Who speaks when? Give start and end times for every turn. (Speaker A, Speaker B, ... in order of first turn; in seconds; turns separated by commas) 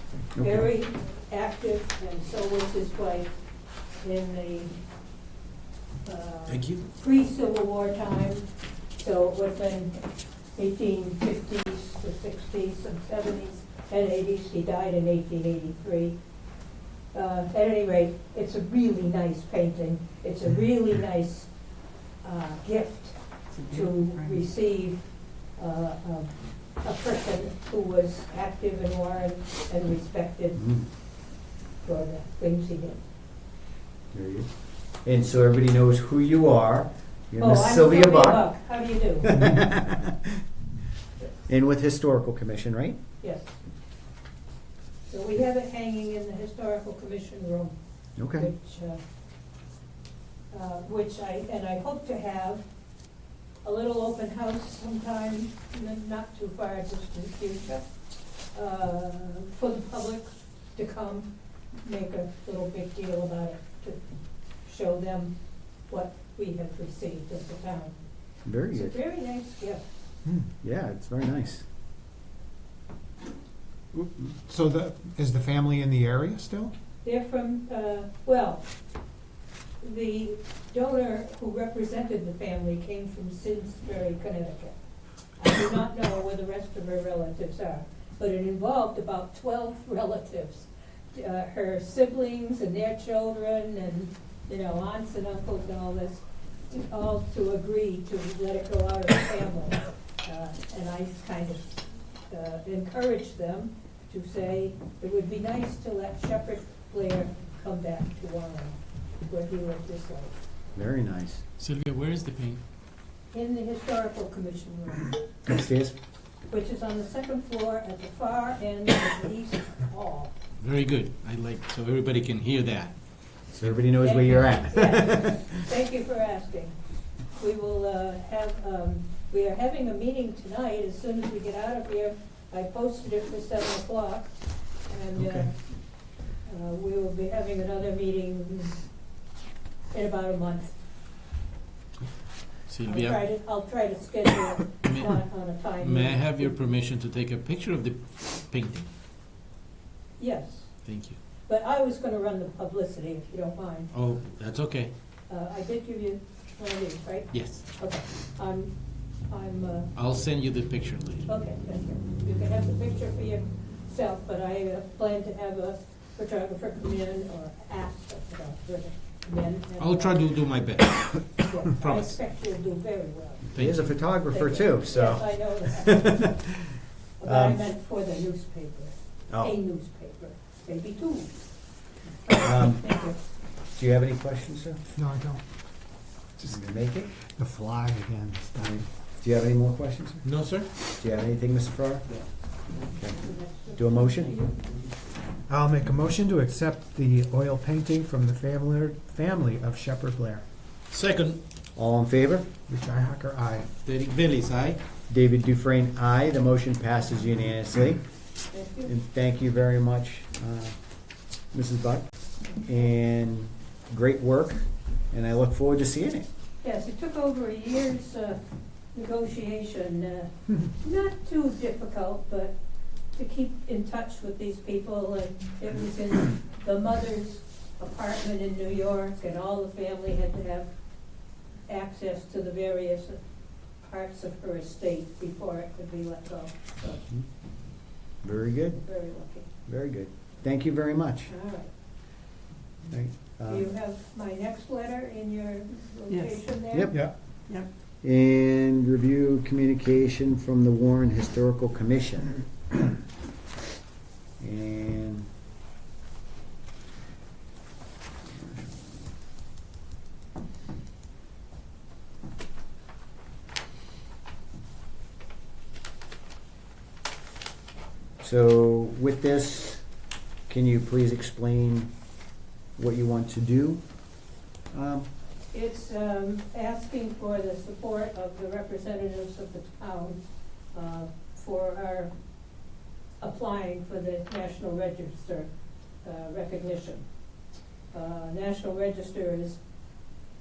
Speaker A: 0.3-0.7, Speaker B: 0.4-3.3, Speaker B: 4.0-4.7, Speaker B: 6.0-10.0, Speaker C: 6.5-6.8, Speaker B: 10.5-16.2, Speaker B: 17.1-21.5, Speaker B: 22.2-25.0, Speaker B: 25.6-30.6, Speaker A: 30.5-30.9, Speaker B: 31.8-33.0, Speaker A: 34.1-34.5, Speaker A: 35.0-38.5, Speaker B: 37.4-39.4, Speaker A: 39.2-40.4, Speaker A: 41.5-43.0, Speaker B: 43.2-43.5, Speaker B: 45.1-47.8, Speaker A: 48.2-48.5, Speaker B: 48.3-49.0, Speaker B: 50.5-52.6, Speaker B: 53.6-57.9, Speaker B: 58.5-64.0, Speaker B: 64.7-65.3, Speaker B: 65.9-68.0, Speaker A: 68.5-69.0, Speaker B: 68.7-69.8, Speaker A: 70.6-71.6, Speaker D: 74.0-76.7, Speaker B: 77.0-78.6, Speaker B: 79.8-84.8, Speaker B: 85.4-101.7, Speaker B: 102.3-110.3, Speaker A: 110.8-111.4, Speaker C: 111.6-112.6, Speaker B: 113.3-115.1, Speaker A: 115.5-116.0, Speaker B: 116.5-120.3, Speaker C: 120.6-122.9, Speaker A: 123.5-125.3, Speaker B: 124.0-126.8, Speaker B: 127.4-134.3, Speaker B: 134.9-135.5, Speaker C: 135.2-135.5, Speaker B: 136.4-138.8, Speaker B: 139.9-140.8, Speaker C: 142.7-143.2, Speaker B: 142.8-146.6, Speaker C: 144.8-145.2, Speaker C: 145.8-148.9, Speaker B: 150.2-150.7, Speaker C: 150.8-151.2, Speaker B: 151.5-153.9, Speaker C: 153.9-154.9, Speaker B: 155.3-158.7, Speaker C: 157.3-157.6, Speaker B: 159.3-159.9, Speaker C: 159.9-161.2, Speaker B: 161.2-170.2, Speaker C: 169.8-172.2, Speaker B: 171.4-173.5, Speaker A: 173.5-177.7, Speaker C: 173.5-173.9, Speaker B: 174.3-176.3, Speaker B: 177.2-181.3, Speaker A: 179.3-179.6, Speaker B: 182.2-183.2, Speaker A: 182.4-182.9, Speaker A: 183.8-184.8, Speaker D: 185.0-185.4, Speaker A: 186.5-187.1, Speaker D: 187.2-188.9, Speaker A: 189.2-190.2, Speaker C: 190.2-190.7, Speaker A: 191.0-192.1, Speaker A: 192.9-193.2, Speaker B: 193.2-194.5, Speaker A: 193.7-194.4, Speaker D: 195.5-200.4, Speaker C: 200.9-201.4, Speaker A: 201.8-202.5, Speaker D: 202.7-203.7, Speaker C: 203.8-204.8, Speaker A: 205.1-208.0, Speaker B: 208.5-208.9, Speaker A: 208.8-210.8, Speaker A: 211.5-212.1, Speaker A: 212.7-216.2, Speaker B: 216.6-218.4, Speaker B: 218.9-222.6, Speaker B: 223.1-230.7, Speaker B: 231.7-233.2, Speaker B: 233.8-237.0, Speaker A: 238.2-238.8, Speaker B: 238.8-239.5, Speaker A: 239.7-241.3, Speaker B: 241.3-241.7, Speaker A: 242.9-243.7, Speaker B: 243.5-246.9, Speaker A: 246.7-247.0, Speaker A: 248.0-252.9, Speaker A: 254.4-255.3, Speaker A: 258.2-258.7, Speaker A: 268.2-269.8, Speaker A: 270.5-271.9, Speaker A: 272.8-273.8, Speaker A: 274.7-275.1, Speaker B: 275.5-280.2, Speaker B: 280.7-282.1, Speaker B: 283.2-285.5, Speaker B: 286.0-287.1, Speaker B: 287.9-289.6